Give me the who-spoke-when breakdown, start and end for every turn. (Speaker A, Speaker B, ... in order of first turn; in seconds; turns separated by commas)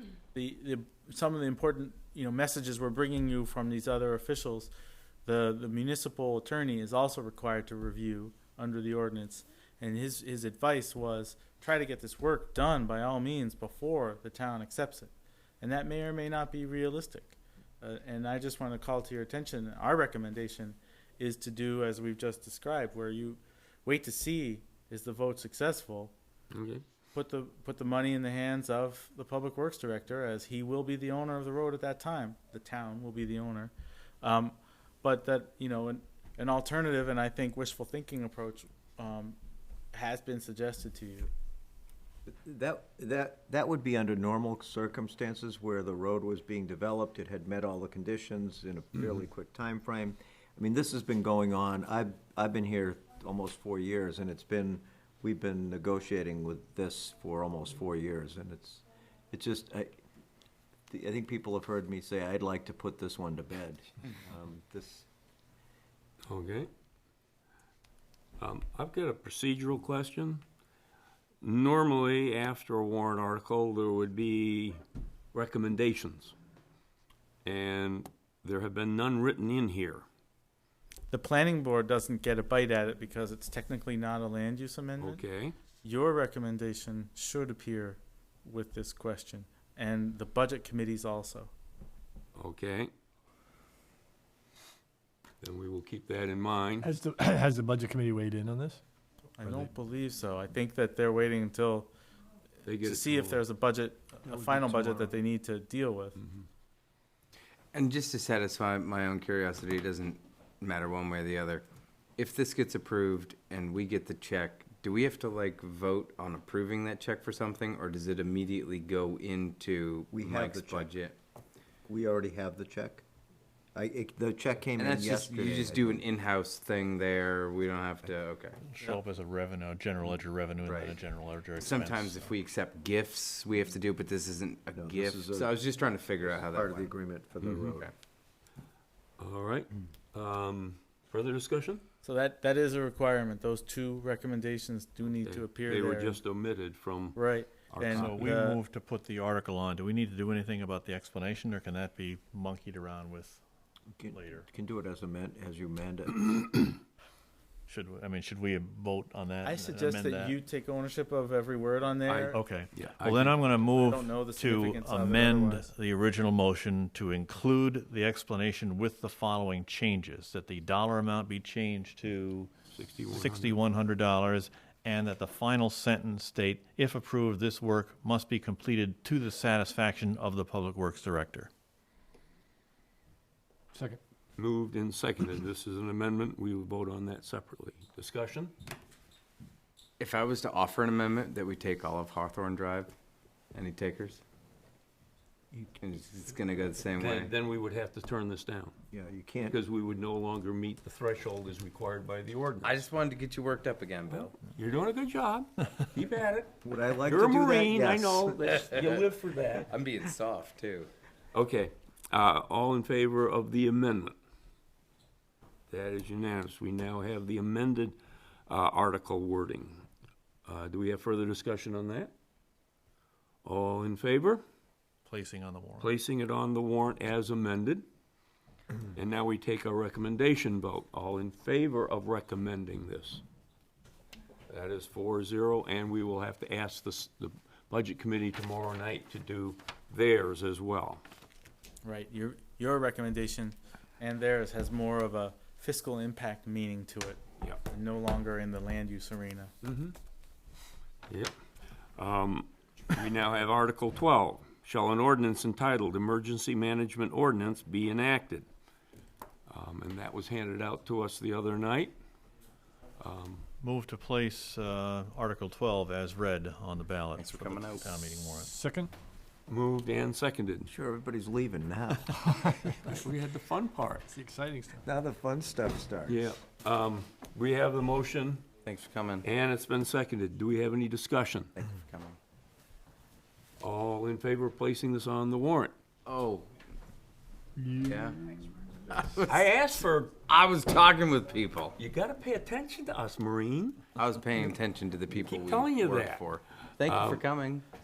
Speaker A: 0.3-4.7, Speaker A: 5.2-26.1, Speaker B: 26.5-26.8, Speaker A: 27.1-39.4, Speaker A: 39.9-41.3, Speaker C: 42.3-59.9, Speaker C: 60.9-65.1, Speaker B: 66.3-66.7, Speaker B: 68.4-70.4, Speaker B: 71.4-74.8, Speaker B: 75.3-76.3, Speaker B: 77.5-80.0, Speaker A: 81.1-85.2, Speaker B: 85.0-85.5, Speaker A: 85.8-91.5, Speaker B: 92.4-92.9, Speaker B: 95.4-96.9, Speaker D: 96.8-98.8, Speaker A: 99.4-101.9, Speaker B: 102.7-103.4, Speaker A: 102.8-106.2, Speaker D: 104.3-105.1, Speaker E: 107.7-111.7, Speaker E: 112.2-121.2, Speaker C: 120.1-121.0, Speaker C: 121.9-123.0, Speaker C: 123.8-126.1, Speaker E: 124.8-128.6, Speaker F: 128.7-132.3, Speaker E: 130.7-131.0, Speaker E: 131.6-136.9, Speaker C: 134.7-135.6, Speaker C: 136.3-137.9, Speaker E: 137.4-137.9, Speaker B: 139.2-141.8, Speaker A: 142.0-146.2, Speaker B: 145.2-148.2, Speaker A: 147.2-148.6, Speaker F: 147.9-153.4, Speaker C: 154.0-156.8, Speaker F: 154.1-154.5, Speaker F: 157.7-160.4, Speaker A: 159.4-162.4, Speaker B: 162.1-163.4, Speaker F: 162.3-172.5, Speaker A: 163.7-165.7, Speaker B: 172.7-173.6, Speaker F: 173.1-181.5, Speaker D: 183.7-184.0, Speaker B: 184.4-188.5, Speaker E: 190.0-192.9, Speaker E: 193.5-194.2, Speaker E: 195.8-197.3, Speaker B: 196.9-198.7, Speaker C: 198.9-199.6, Speaker B: 199.5-202.8, Speaker E: 202.6-204.3, Speaker B: 204.1-209.7, Speaker C: 206.6-208.7, Speaker E: 208.7-209.0, Speaker E: 209.7-210.9, Speaker B: 211.3-214.2, Speaker B: 215.7-218.0, Speaker B: 218.5-219.8, Speaker B: 220.4-222.1, Speaker B: 223.4-224.4, Speaker F: 225.1-225.9, Speaker B: 225.8-227.8, Speaker B: 228.9-233.2, Speaker B: 234.5-241.0, Speaker A: 241.8-249.5, Speaker B: 249.6-249.9, Speaker B: 252.0-258.5, Speaker B: 259.5-262.0, Speaker B: 263.0-263.4, Speaker F: 263.6-268.5, Speaker E: 267.2-267.9, Speaker D: 268.5-268.9, Speaker B: 269.5-270.7, Speaker C: 270.6-272.5, Speaker B: 272.8-274.1, Speaker D: 274.1-274.9, Speaker C: 274.8-276.4, Speaker B: 276.1-278.4, Speaker E: 278.6-279.3, Speaker B: 279.2-281.5, Speaker E: 281.6-282.2, Speaker B: 283.6-285.7, Speaker E: 286.1-286.5, Speaker D: 287.6-288.4, Speaker E: 287.8-288.2, Speaker E: 288.9-289.4, Speaker B: 289.3-290.2, Speaker E: 290.3-291.8, Speaker B: 291.8-293.9, Speaker E: 294.0-297.6, Speaker B: 295.2-296.3, Speaker B: 296.8-297.2